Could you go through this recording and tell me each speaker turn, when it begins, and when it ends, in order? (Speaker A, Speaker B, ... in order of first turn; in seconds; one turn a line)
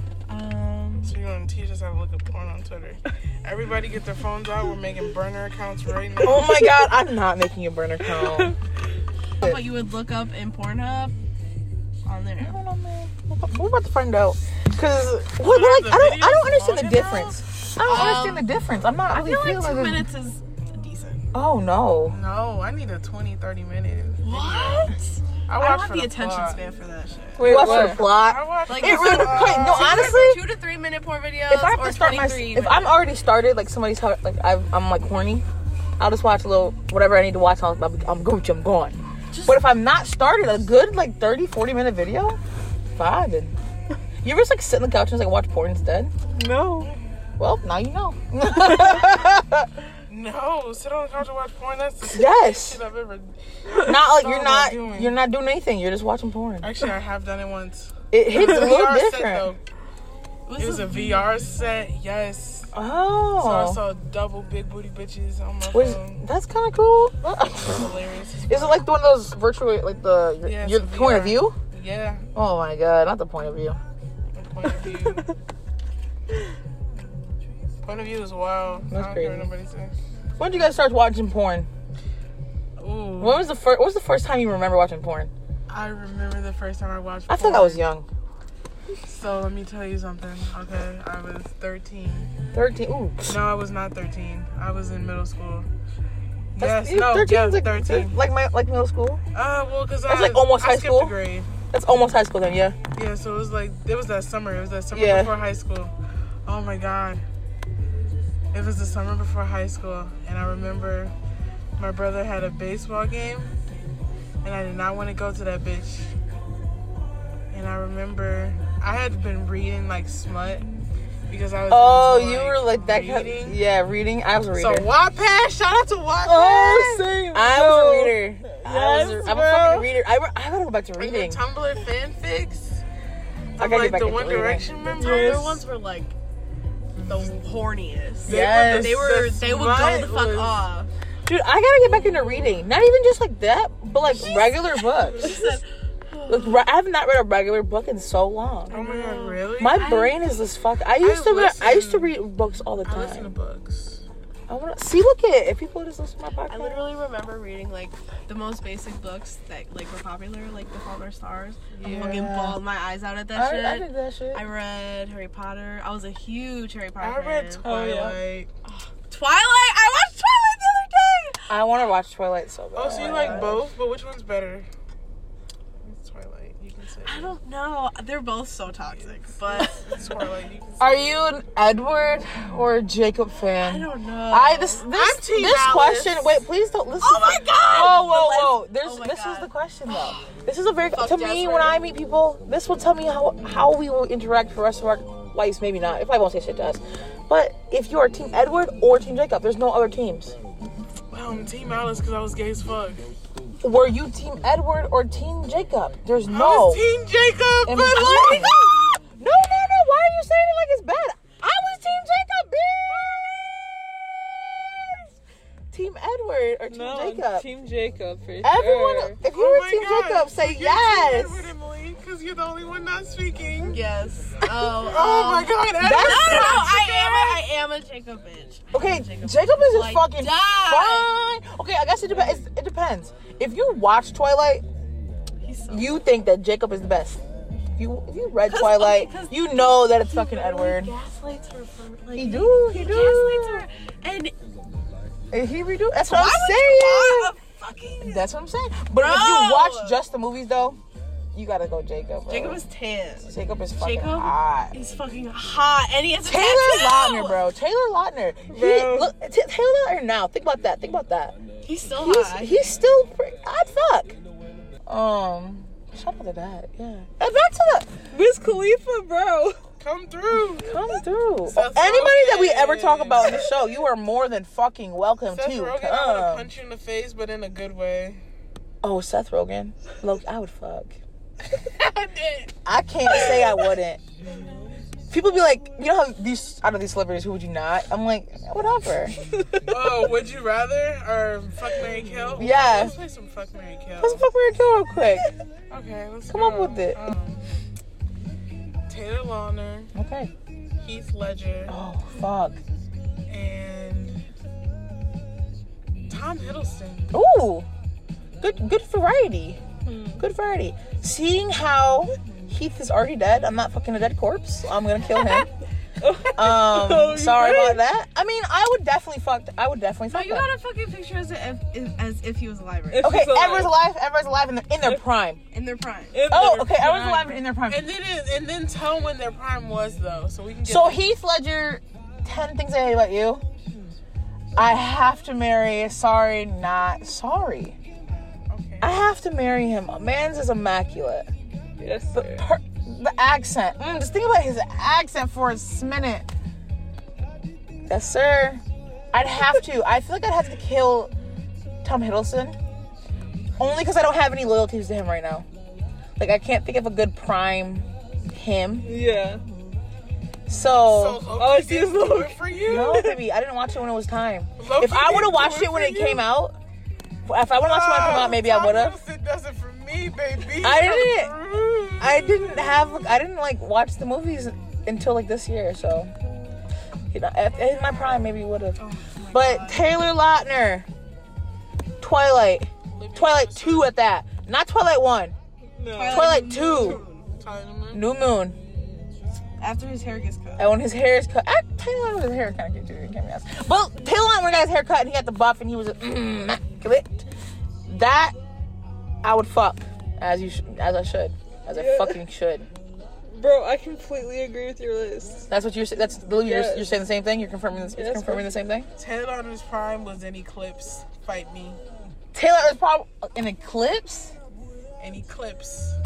Speaker A: 0.3-1.1
Speaker B: 1.0-6.7
Speaker C: 6.2-8.5
Speaker D: 8.2-8.5
Speaker A: 9.4-11.1
Speaker A: 12.0-12.6
Speaker C: 12.4-20.1
Speaker B: 15.4-17.4
Speaker A: 17.8-18.4
Speaker A: 19.1-21.2
Speaker C: 21.3-22.2
Speaker B: 22.1-24.9
Speaker A: 24.2-27.9
Speaker B: 25.5-26.6
Speaker D: 27.4-28.1
Speaker C: 27.4-30.4
Speaker B: 27.5-30.2
Speaker A: 28.7-32.9
Speaker C: 31.5-35.4
Speaker C: 36.0-42.4
Speaker A: 39.3-39.6
Speaker C: 43.0-43.5
Speaker C: 44.2-46.1
Speaker D: 46.3-46.9
Speaker C: 47.4-49.7
Speaker B: 50.1-55.1
Speaker C: 52.0-52.8
Speaker C: 53.8-56.7
Speaker B: 56.6-59.6
Speaker C: 58.1-59.5
Speaker A: 60.5-61.3
Speaker B: 60.6-62.7
Speaker C: 62.7-63.8
Speaker B: 63.4-66.2
Speaker C: 65.7-67.9
Speaker B: 67.5-68.8
Speaker C: 68.5-71.5
Speaker B: 70.4-72.2
Speaker C: 72.3-73.8
Speaker B: 74.3-75.3
Speaker B: 77.8-79.9
Speaker C: 78.9-79.5
Speaker C: 80.4-81.7
Speaker B: 82.8-83.4
Speaker C: 83.2-85.3
Speaker B: 85.7-87.8
Speaker C: 87.3-88.0
Speaker B: 89.0-92.3
Speaker C: 92.5-93.4
Speaker B: 93.2-95.7
Speaker B: 96.5-98.2
Speaker C: 96.5-99.2
Speaker B: 99.3-101.5
Speaker C: 100.0-101.2
Speaker C: 101.7-102.8
Speaker B: 102.9-105.9
Speaker C: 104.9-105.4
Speaker B: 106.4-107.2
Speaker B: 108.5-111.1
Speaker B: 111.8-113.5
Speaker B: 114.4-116.1
Speaker B: 117.5-120.7
Speaker B: 121.3-123.6
Speaker C: 121.7-124.9
Speaker B: 124.5-127.1
Speaker D: 126.2-129.9
Speaker C: 126.7-131.4
Speaker B: 131.0-132.8
Speaker B: 133.6-135.6
Speaker C: 133.6-134.7
Speaker A: 134.9-136.1
Speaker A: 137.0-140.9
Speaker C: 138.2-139.1
Speaker B: 138.2-140.6
Speaker C: 141.2-145.5
Speaker A: 144.1-146.6
Speaker C: 146.3-148.8
Speaker B: 148.7-149.8
Speaker A: 148.7-150.2
Speaker C: 149.6-153.3
Speaker B: 151.0-152.1
Speaker B: 152.8-154.0
Speaker C: 154.5-156.8
Speaker A: 156.5-167.6
Speaker B: 161.8-162.3
Speaker C: 161.8-162.6
Speaker C: 163.3-164.4
Speaker B: 167.0-168.5
Speaker D: 167.6-168.2
Speaker A: 169.1-171.5
Speaker C: 171.5-173.6
Speaker B: 172.7-174.7
Speaker A: 173.0-173.5
Speaker B: 175.8-177.3
Speaker A: 177.0-179.9
Speaker B: 179.0-180.8
Speaker C: 180.8-200.3
Speaker A: 183.6-184.9
Speaker B: 184.9-186.3
Speaker A: 187.0-190.3
Speaker A: 190.9-191.8
Speaker B: 201.1-203.0
Speaker C: 203.6-206.8
Speaker B: 206.3-208.7
Speaker C: 207.7-215.1
Speaker C: 215.7-217.4
Speaker D: 216.7-219.2
Speaker C: 218.4-221.5
Speaker B: 219.2-223.8
Speaker A: 223.7-231.1
Speaker B: 224.5-227.4
Speaker C: 225.8-226.7
Speaker C: 228.7-234.6
Speaker A: 235.4-236.0
Speaker C: 235.7-237.2
Speaker C: 237.8-240.9
Speaker A: 238.4-244.3
Speaker C: 242.1-243.7
Speaker C: 245.3-247.3
Speaker A: 246.1-248.3
Speaker C: 248.0-250.8
Speaker A: 248.9-250.0
Speaker C: 251.3-252.6
Speaker A: 252.3-257.4
Speaker C: 253.2-254.7
Speaker C: 256.2-261.4
Speaker D: 258.5-259.1
Speaker A: 261.6-262.7
Speaker C: 262.0-264.1
Speaker C: 264.9-267.9
Speaker D: 268.1-269.6
Speaker B: 269.8-270.8
Speaker C: 270.6-276.5
Speaker B: 271.5-273.5
Speaker B: 275.3-278.2
Speaker C: 278.8-281.0
Speaker B: 281.5-282.5
Speaker C: 282.6-284.0
Speaker B: 283.1-283.7
Speaker C: 285.1-289.1
Speaker B: 289.7-294.3
Speaker C: 292.4-293.0
Speaker C: 294.0-295.3
Speaker B: 295.7-297.5
Speaker C: 296.3-297.0
Speaker B: 298.9-299.9
Speaker C: 299.9-300.3
Speaker B: 300.8-301.8
Speaker C: 301.7-302.6
Speaker B: 303.3-304.2
Speaker B: 306.1-307.2
Speaker C: 307.1-307.7
Speaker C: 308.4-309.6
Speaker D: 309.8-310.2
Speaker C: 310.2-315.5
Speaker D: 316.0-317.8
Speaker C: 316.3-320.5
Speaker A: 320.1-323.1
Speaker D: 322.9-323.7
Speaker C: 323.0-325.4
Speaker A: 325.5-326.2
Speaker D: 326.1-327.4
Speaker C: 326.3-327.9
Speaker B: 327.7-331.0
Speaker C: 330.6-333.4
Speaker C: 334.6-337.8
Speaker B: 338.5-339.0
Speaker C: 338.8-341.3
Speaker D: 341.8-342.4
Speaker C: 342.1-346.3
Speaker C: 347.9-351.1
Speaker C: 351.8-352.6
Speaker C: 353.6-355.5
Speaker C: 356.2-358.9
Speaker D: 358.8-359.4
Speaker C: 360.5-361.2
Speaker B: 360.8-363.0
Speaker D: 361.3-363.2
Speaker C: 362.6-366.6
Speaker B: 364.6-366.3
Speaker C: 367.2-369.0
Speaker B: 367.6-372.8
Speaker C: 370.6-371.3
Speaker C: 372.0-376.1
Speaker C: 377.1-378.8
Speaker B: 378.8-379.8
Speaker A: 378.9-379.8
Speaker C: 379.3-380.9
Speaker C: 382.0-385.3
Speaker B: 382.9-383.9
Speaker D: 385.8-386.3
Speaker A: 385.9-387.2
Speaker C: 386.0-387.0
Speaker B: 386.7-388.1
Speaker C: 387.9-388.6
Speaker A: 389.6-390.7
Speaker C: 390.6-397.3
Speaker C: 397.9-398.4
Speaker C: 399.2-402.7
Speaker D: 401.7-402.2
Speaker D: 403.2-405.5
Speaker C: 405.5-408.9
Speaker D: 406.4-407.0
Speaker D: 407.9-408.5
Speaker B: 408.9-411.8
Speaker C: 412.3-414.4
Speaker B: 415.0-416.0